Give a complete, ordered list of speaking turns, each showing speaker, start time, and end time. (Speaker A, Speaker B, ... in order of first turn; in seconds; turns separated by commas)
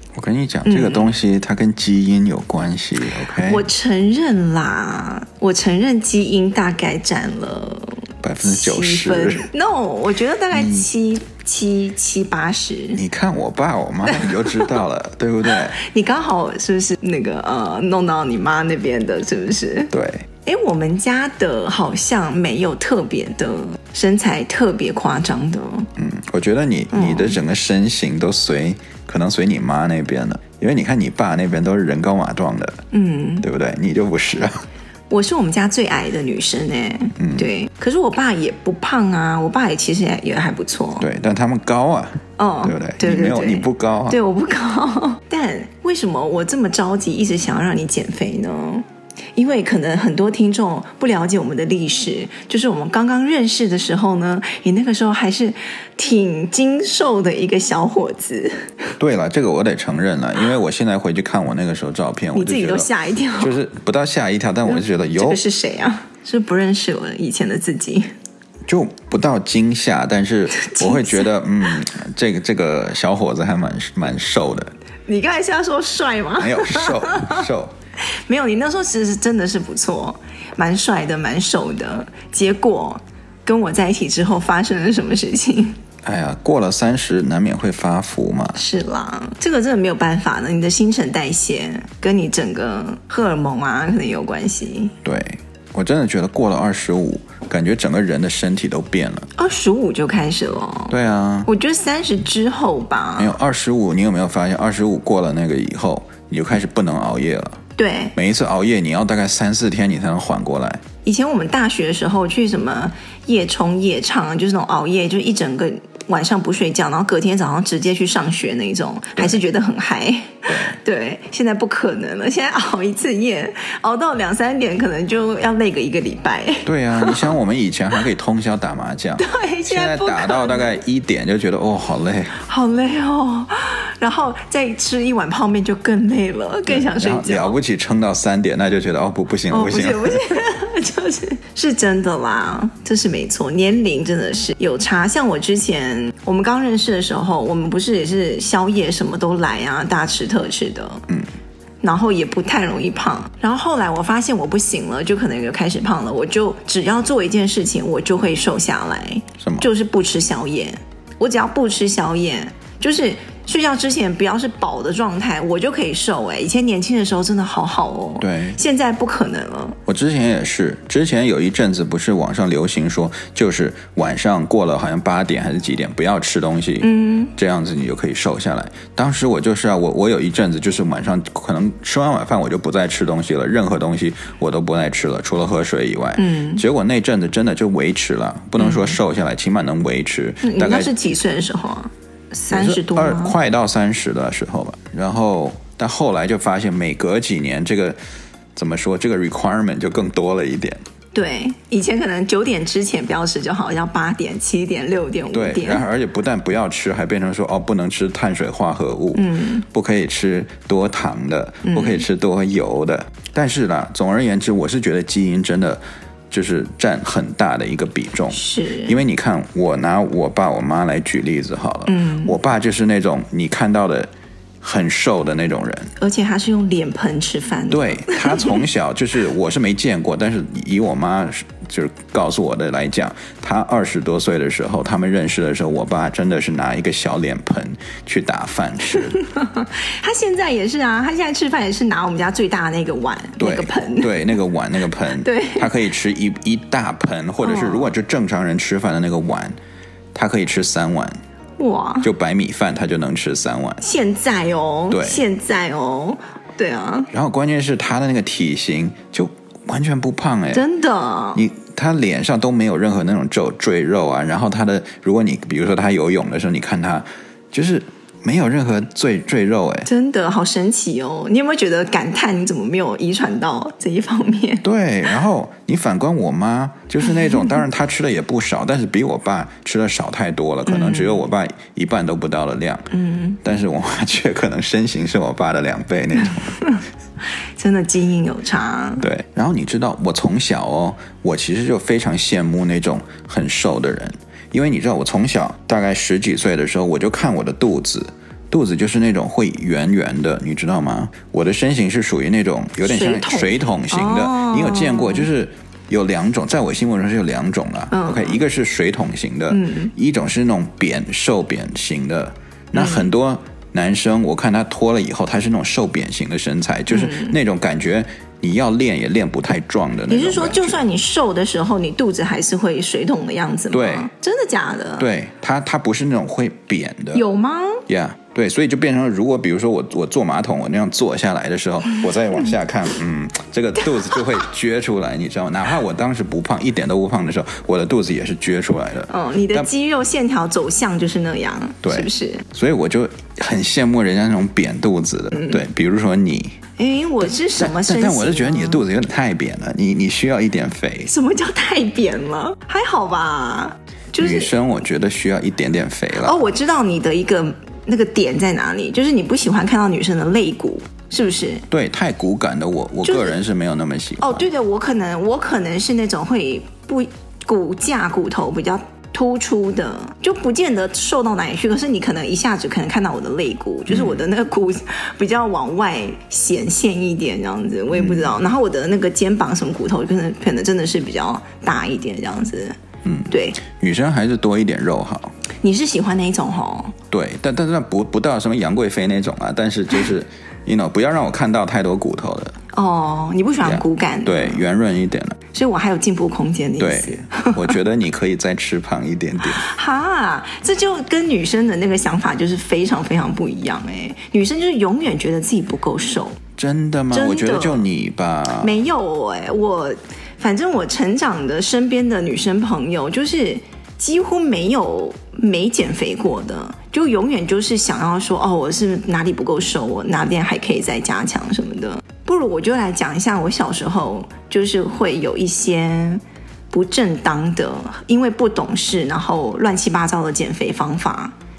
Speaker A: 0.1-3.6, Speaker B: 0.7-1.1, Speaker B: 3.4-13.0, Speaker A: 8.2-9.5, Speaker A: 10.5-10.8, Speaker A: 12.9-15.8, Speaker B: 14.1-14.7, Speaker B: 15.4-19.9, Speaker A: 19.9-20.2, Speaker B: 20.4-25.9, Speaker A: 26.0-32.8, Speaker B: 26.9-27.4, Speaker B: 32.9-33.5, Speaker A: 33.4-34.6, Speaker B: 35.1-41.1, Speaker A: 37.2-37.5, Speaker A: 41.0-44.2, Speaker B: 42.4-48.8, Speaker B: 49.4-58.9, Speaker A: 59.0-62.9, Speaker B: 62.3-63.6, Speaker A: 63.4-65.4, Speaker B: 64.7-68.1, Speaker A: 68.7-74.7, Speaker B: 70.6-71.3, Speaker B: 75.1-77.4, Speaker A: 76.4-77.7, Speaker B: 78.3-85.8, Speaker A: 86.0-88.6, Speaker B: 88.5-94.9, Speaker A: 95.0-99.3, Speaker B: 99.4-100.9, Speaker A: 100.9-101.5, Speaker B: 101.5-103.3, Speaker A: 103.2-107.6, Speaker B: 107.8-108.1, Speaker A: 108.1-110.8, Speaker B: 111.0-127.3, Speaker A: 120.5-120.8, Speaker A: 126.7-132.4, Speaker B: 129.2-130.8, Speaker B: 132.3-137.6, Speaker A: 136.7-140.2, Speaker B: 139.5-151.1, Speaker B: 151.8-169.8, Speaker A: 159.4-159.7, Speaker A: 168.2-168.6, Speaker A: 169.8-191.0, Speaker B: 176.8-177.3, Speaker B: 186.2-186.6, Speaker B: 188.6-188.9, Speaker B: 190.4-193.3, Speaker A: 192.5-198.0, Speaker A: 198.6-200.8, Speaker B: 201.1-205.8, Speaker A: 205.3-224.1, Speaker B: 209.1-209.6, Speaker B: 211.6-212.0, Speaker B: 218.3-219.0, Speaker B: 221.9-222.4, Speaker A: 224.6-225.9, Speaker B: 226.0-228.6, Speaker A: 227.7-239.2, Speaker B: 239.2-244.3, Speaker A: 243.4-249.6, Speaker B: 245.2-245.7, Speaker B: 247.4-247.9, Speaker A: 250.1-251.2, Speaker B: 251.6-252.1, Speaker A: 252.0-253.8, Speaker B: 253.8-257.1, Speaker A: 254.9-255.2, Speaker A: 257.1-260.6, Speaker B: 260.5-261.4, Speaker A: 261.3-269.9, Speaker B: 269.8-274.6, Speaker A: 274.6-282.9, Speaker B: 277.2-277.6, Speaker B: 280.6-281.2, Speaker B: 282.9-283.4, Speaker A: 283.4-286.7, Speaker B: 287.6-289.1, Speaker A: 289.0-320.8, Speaker B: 302.8-305.3, Speaker B: 307.9-308.4, Speaker B: 309.5-309.9, Speaker B: 312.7-313.1, Speaker B: 316.9-317.4, Speaker B: 320.1-325.1, Speaker A: 323.7-324.1, Speaker A: 325.0-327.2, Speaker B: 327.1-327.8, Speaker A: 327.9-339.7, Speaker B: 339.1-342.4, Speaker A: 341.8-346.6, Speaker B: 345.3-345.6, Speaker B: 346.8-348.8, Speaker A: 347.6-351.1, Speaker B: 351.1-354.5, Speaker A: 354.2-356.4, Speaker B: 356.2-361.6, Speaker A: 361.7-364.5, Speaker B: 363.0-363.4, Speaker B: 364.2-382.8, Speaker A: 373.9-374.2, Speaker A: 377.9-378.3, Speaker A: 383.0-385.3, Speaker B: 383.3-383.6, Speaker B: 385.6-386.9, Speaker A: 387.1-392.6, Speaker B: 392.7-394.6, Speaker A: 393.6-395.4, Speaker B: 395.5-397.7, Speaker A: 396.8-399.7, Speaker B: 399.4-406.4, Speaker A: 406.6-408.8, Speaker B: 407.1-407.8, Speaker B: 408.6-431.3